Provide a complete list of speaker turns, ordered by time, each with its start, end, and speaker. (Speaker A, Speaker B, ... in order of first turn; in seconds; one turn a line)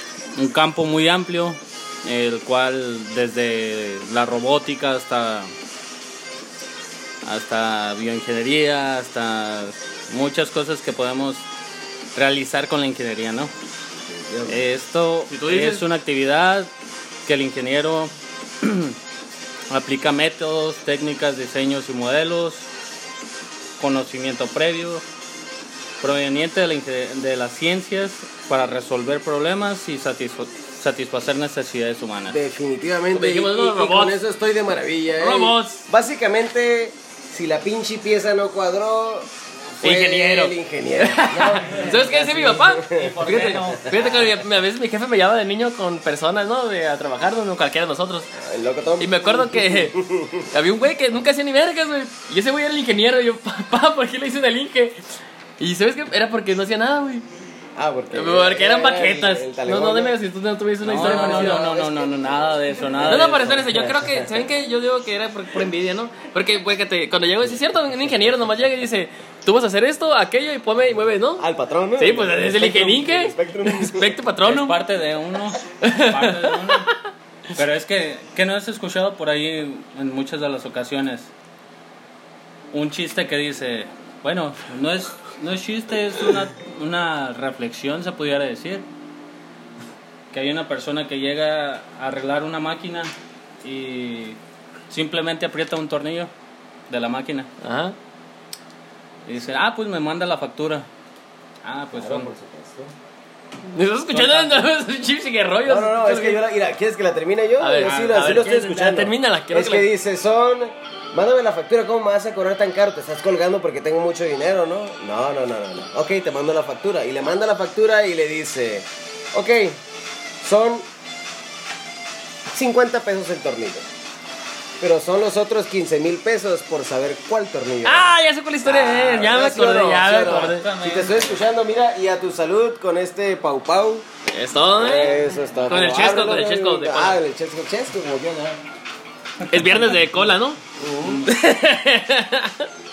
Speaker A: 0.3-5.5
Speaker A: 7.2-11.4
Speaker A: 12.1-13.5
Speaker B: 14.0-14.6
Speaker A: 14.5-16.7
Speaker C: 15.3-15.8
Speaker A: 17.2-19.0
Speaker A: 19.7-22.7
Speaker A: 23.8-25.0
Speaker A: 26.0-32.4
Speaker B: 32.3-43.7
Speaker C: 33.1-34.2
Speaker C: 35.1-35.9
Speaker C: 39.8-48.3
Speaker A: 42.9-44.3
Speaker B: 48.3-50.5
Speaker C: 49.0-50.0
Speaker C: 50.5-55.0
Speaker C: 55.6-57.2
Speaker B: 57.8-60.2
Speaker C: 58.1-61.7
Speaker A: 60.8-63.6
Speaker B: 60.9-64.3
Speaker C: 63.0-71.4
Speaker B: 71.4-74.2
Speaker C: 72.0-74.8
Speaker A: 74.4-76.9
Speaker C: 75.8-77.0
Speaker A: 77.5-81.3
Speaker A: 82.7-88.8
Speaker A: 90.3-93.1
Speaker A: 93.6-94.4
Speaker A: 94.9-96.3
Speaker A: 96.9-97.5
Speaker C: 97.6-97.9
Speaker A: 99.2-100.8
Speaker A: 101.6-102.3
Speaker B: 101.9-102.9
Speaker C: 103.7-106.4
Speaker A: 104.1-104.7
Speaker B: 105.7-119.8
Speaker C: 107.6-109.9
Speaker A: 107.8-108.5
Speaker B: 120.4-120.8
Speaker B: 122.5-123.9
Speaker B: 124.8-128.1
Speaker C: 127.8-130.7
Speaker B: 128.6-134.1
Speaker A: 130.0-131.4
Speaker C: 134.3-137.2
Speaker B: 134.7-138.6
Speaker C: 139.5-142.7
Speaker B: 140.8-141.3